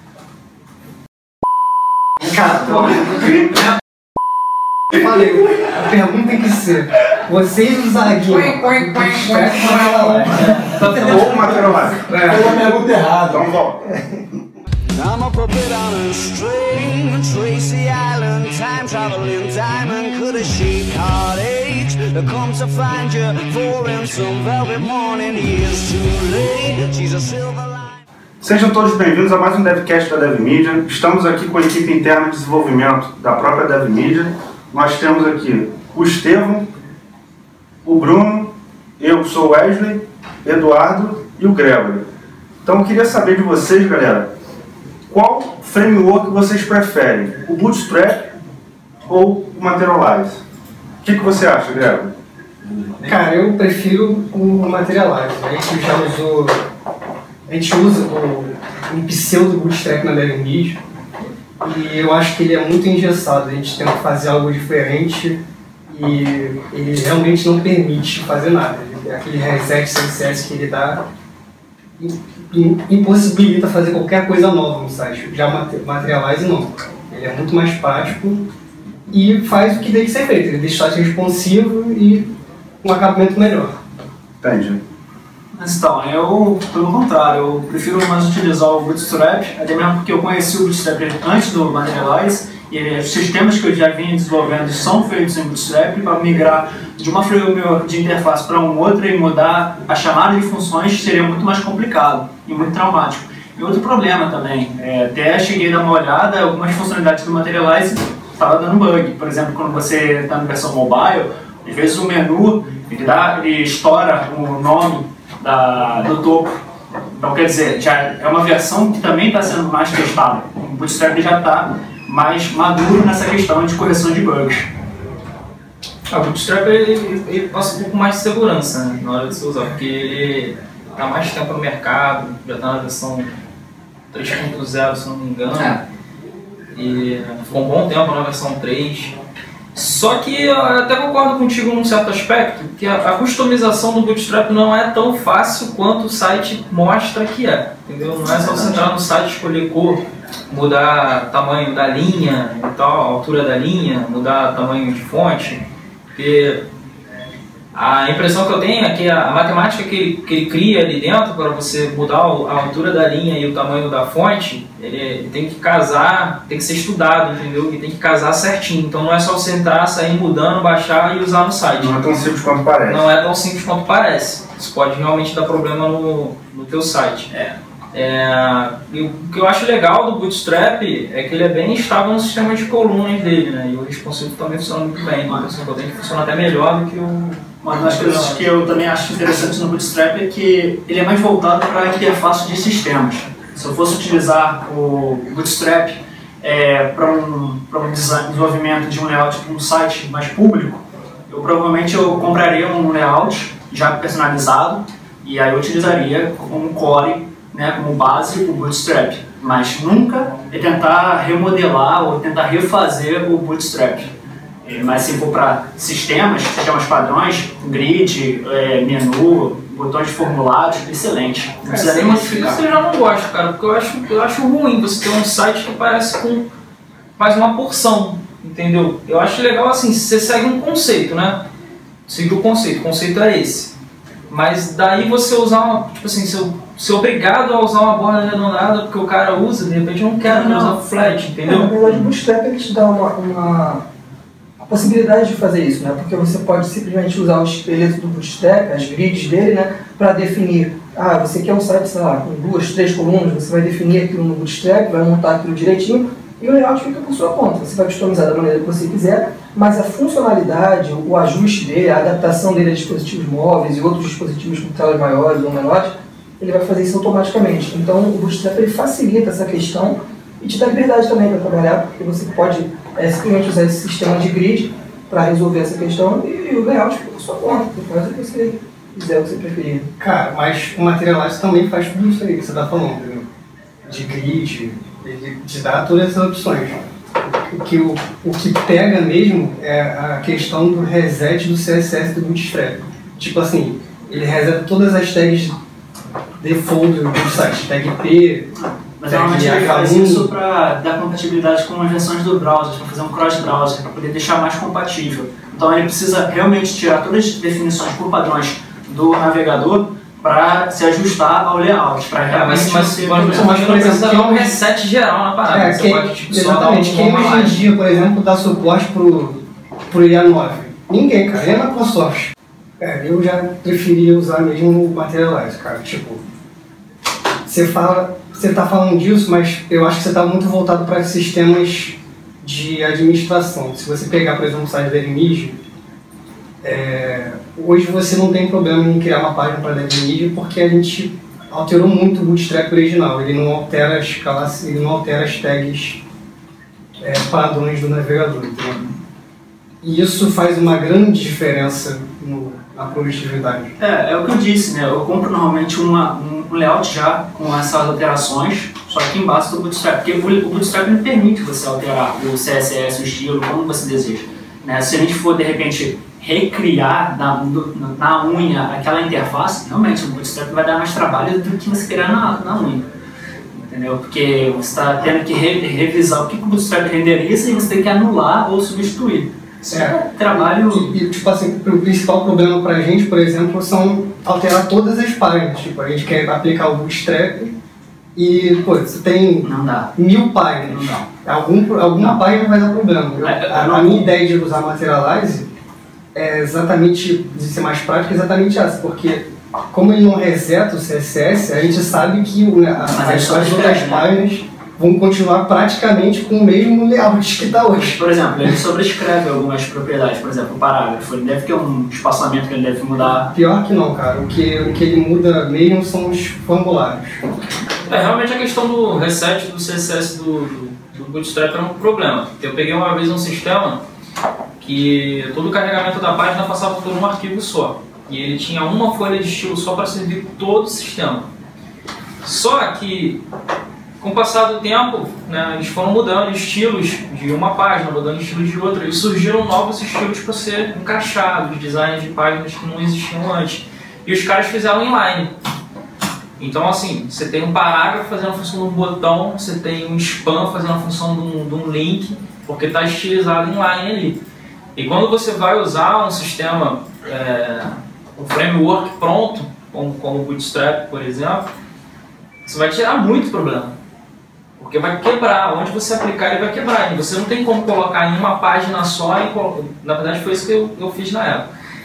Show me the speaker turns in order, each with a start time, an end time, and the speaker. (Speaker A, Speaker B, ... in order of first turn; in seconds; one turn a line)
Speaker A: 2.2-3.7
Speaker A: 4.9-12.9
Speaker B: 10.9-12.1
Speaker B: 13.2-13.9
Speaker C: 14.9-28.0
Speaker B: 28.4-36.7
Speaker B: 37.9-42.0
Speaker B: 42.6-44.3
Speaker B: 45.1-48.3
Speaker B: 49.1-50.4
Speaker B: 51.0-52.1
Speaker B: 52.6-53.1
Speaker A: 53.0-56.6
Speaker A: 57.5-60.8
Speaker A: 61.6-71.0
Speaker A: 72.0-78.4
Speaker A: 79.1-82.2
Speaker A: 82.8-83.7
Speaker B: 84.4-84.8
Speaker D: 85.5-124.7
Speaker E: 126.1-133.3
Speaker E: 134.1-135.8
Speaker E: 136.7-139.2
Speaker E: 139.8-155.6
Speaker E: 156.1-156.6
Speaker E: 157.7-172.1
Speaker B: 171.7-173.1
Speaker E: 172.8-177.3
Speaker D: 177.3-177.6
Speaker E: 177.9-188.7
Speaker D: 187.6-214.1
Speaker D: 214.6-222.6
Speaker E: 221.7-226.4
Speaker E: 227.2-231.4
Speaker E: 232.1-233.7
Speaker E: 234.3-242.1
Speaker D: 240.3-240.7
Speaker F: 241.5-243.8
Speaker F: 244.6-279.9
Speaker A: 280.0-283.3
Speaker A: 283.9-295.5
Speaker A: 296.4-298.5
Speaker D: 298.6-313.8
Speaker A: 299.1-300.3
Speaker E: 312.2-317.6
Speaker A: 313.3-314.6
Speaker A: 315.5-326.2
Speaker A: 327.5-335.6
Speaker A: 336.6-346.0
Speaker A: 347.0-348.9
Speaker A: 349.8-353.7
Speaker D: 353.8-372.9
Speaker D: 373.5-380.9
Speaker A: 379.7-387.5
Speaker A: 388.2-395.5
Speaker D: 389.4-389.9
Speaker D: 390.7-391.0
Speaker D: 393.2-394.1
Speaker A: 396.1-408.6
Speaker D: 402.9-404.1
Speaker D: 407.8-413.3
Speaker A: 413.3-417.2
Speaker E: 417.9-423.8
Speaker E: 424.6-431.3
Speaker E: 432.2-433.2
Speaker E: 434.0-445.3
Speaker E: 446.4-454.2
Speaker E: 454.8-461.5
Speaker E: 462.5-463.7
Speaker E: 464.6-471.5